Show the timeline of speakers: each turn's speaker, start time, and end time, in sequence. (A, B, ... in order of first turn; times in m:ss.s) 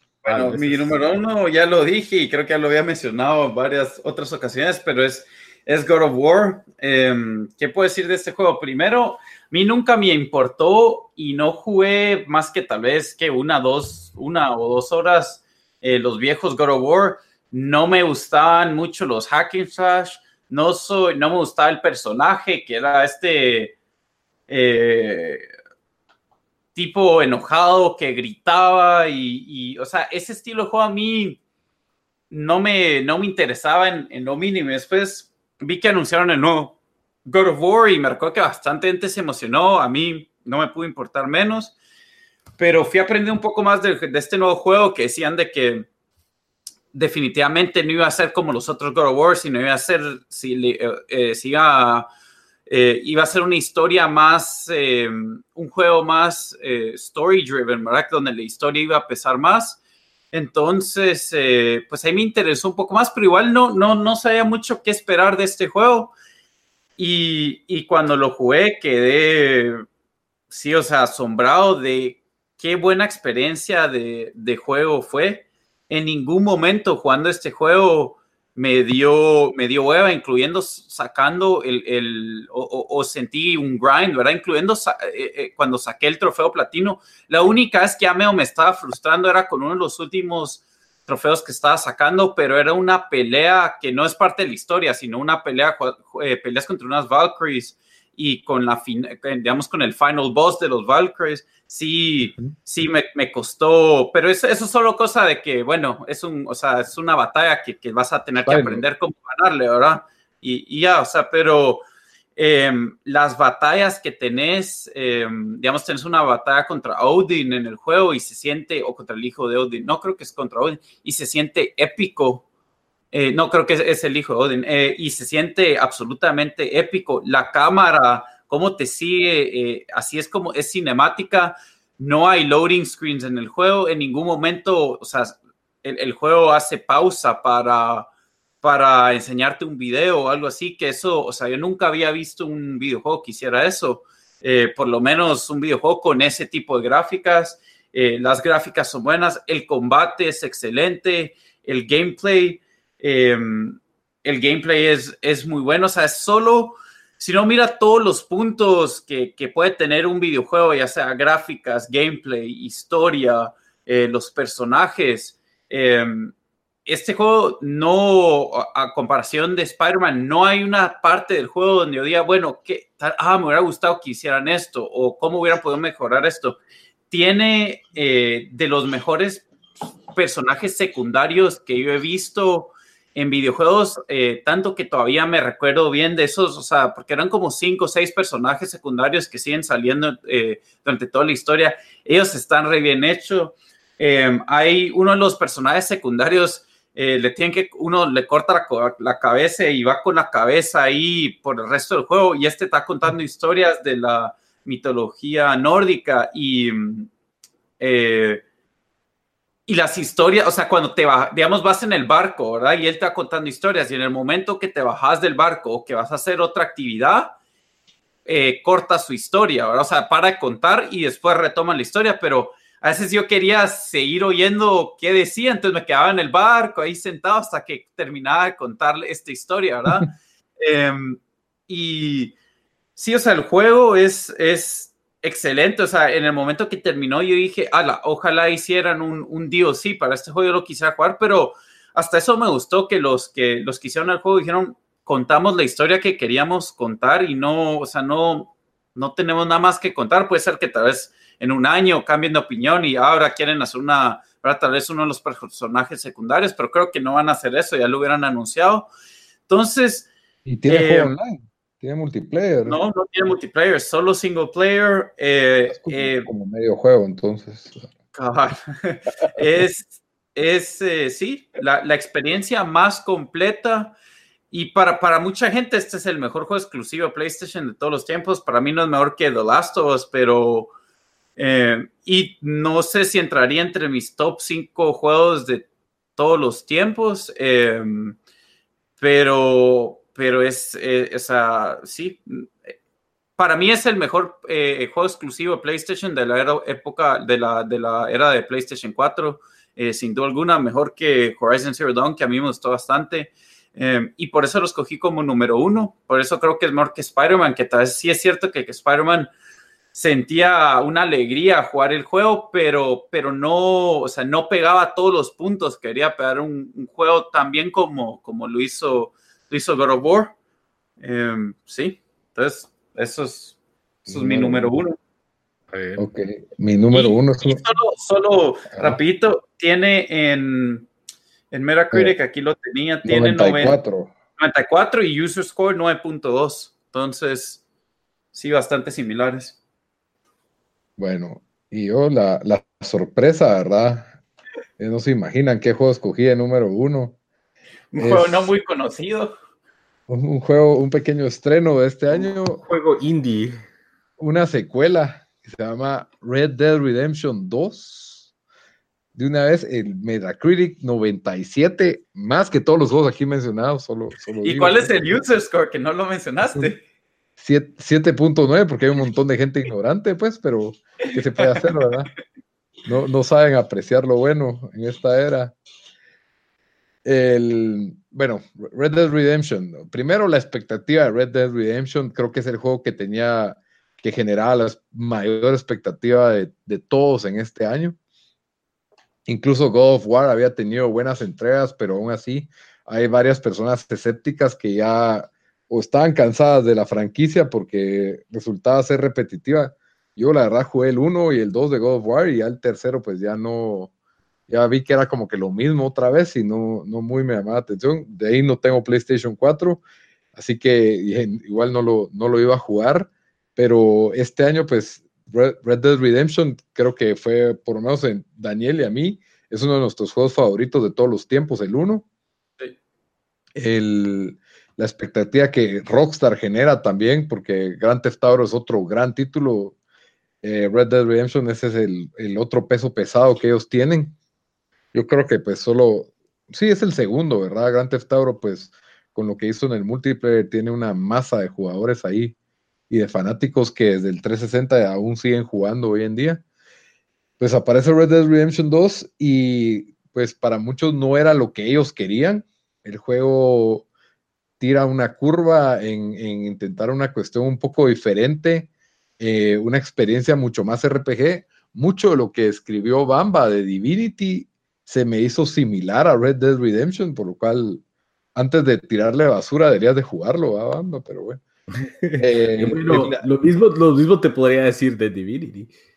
0:00.2-0:01.0 A
0:00.2-0:23.7 B
0:24.5-0:25.4 B
0:26.7-0:31.4 B
0:32.3-0:36.7 B
0:37.2-0:41.7 B
0:42.6-0:45.8 B
0:46.9-0:52.1 B
0:52.7-0:59.8 B
1:00.3-1:06.1 B
1:07.0-1:09.8 B
1:10.5-1:51.8 B
1:48.4-1:48.8 C
1:52.4-2:02.4 B
2:03.1-2:18.1 B
2:18.6-2:46.3 B
2:46.8-2:56.6 B
2:57.1-2:59.5 B
3:00.1-3:27.1 B
3:27.8-3:28.4 B
3:29.7-3:37.3 B
3:38.2-3:52.3 B
3:53.0-4:18.9 B
4:19.5-4:20.1 B
4:20.4-4:22.8 C
4:20.7-4:21.1 B
4:22.6-4:26.3 B
4:25.7-4:27.8 C
4:28.1-4:33.9 B
4:34.5-4:40.7 B
4:41.4-4:48.2 B
4:49.0-4:52.5 B
4:53.4-5:09.3 B
5:09.9-5:20.3 B
5:21.0-5:23.6 B
5:24.0-5:24.8 C
5:24.1-5:25.0 B
5:25.7-5:26.0 A
5:26.0-5:27.6 C
5:26.9-5:30.9 B
5:28.7-5:29.0 C
5:31.5-5:33.8 B
5:33.0-5:34.1 C
5:34.4-5:37.6 B
5:38.3-5:39.6 B
5:41.0-5:44.1 C
5:44.8-5:47.2 C
5:47.9-5:49.3 B
5:47.9-5:48.5 C
5:50.1-5:52.6 C
5:52.1-5:53.6 A
5:54.2-5:58.3 C
5:59.1-6:05.0 C
6:04.4-6:06.8 B
6:07.4-6:12.1 C
6:11.4-6:11.6 B
6:12.8-6:15.5 C
6:17.0-6:28.0 C
6:29.3-6:43.9 C
6:44.5-6:49.8 C
6:50.3-7:02.0 C
7:03.5-7:09.7 C
7:10.4-7:14.1 C
7:14.9-7:22.3 C
7:22.9-7:26.4 C
7:27.4-7:33.8 C
7:34.6-7:47.8 C
7:48.3-7:51.4 C
7:51.7-7:55.7 A
7:52.2-7:53.2 C